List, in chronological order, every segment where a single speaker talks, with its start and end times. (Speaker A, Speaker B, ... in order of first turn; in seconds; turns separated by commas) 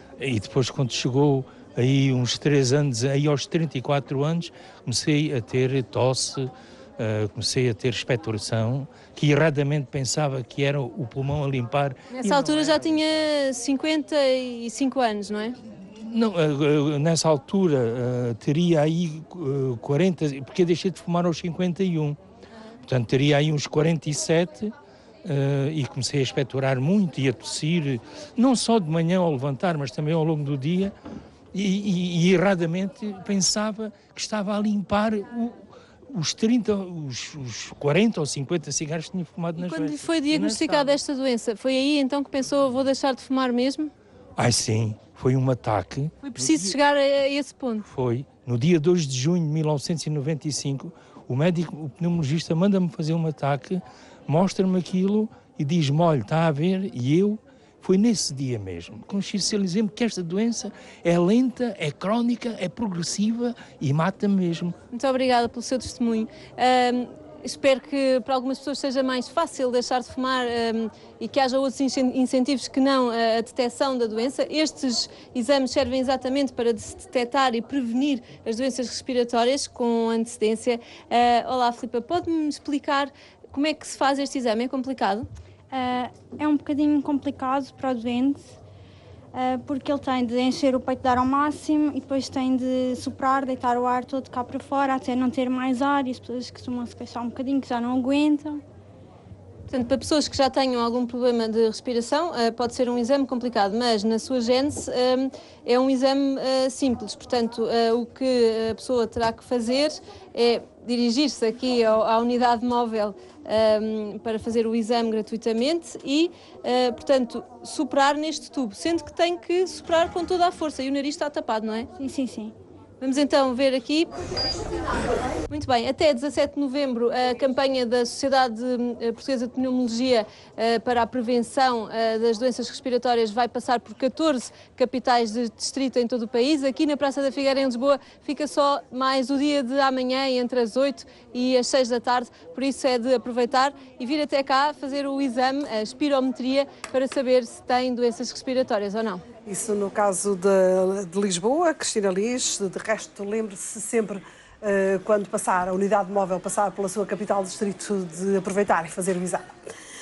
Speaker A: 0.2-12.8, Speaker B: 12.1-15.6, Speaker A: 15.8-22.2, Speaker A: 22.9-24.7, Speaker A: 25.2-30.9, Speaker A: 31.5-41.0, Speaker B: 39.6-43.9, Speaker A: 44.4-46.7, Speaker B: 46.2-47.9, Speaker A: 47.9-64.8, Speaker B: 64.9-85.3, Speaker C: 85.7-88.5, Speaker C: 89.3-98.6, Speaker B: 99.7-121.9, Speaker C: 122.0-122.5, Speaker B: 123.0-124.1, Speaker B: 125.5-149.2, Speaker D: 149.5-159.5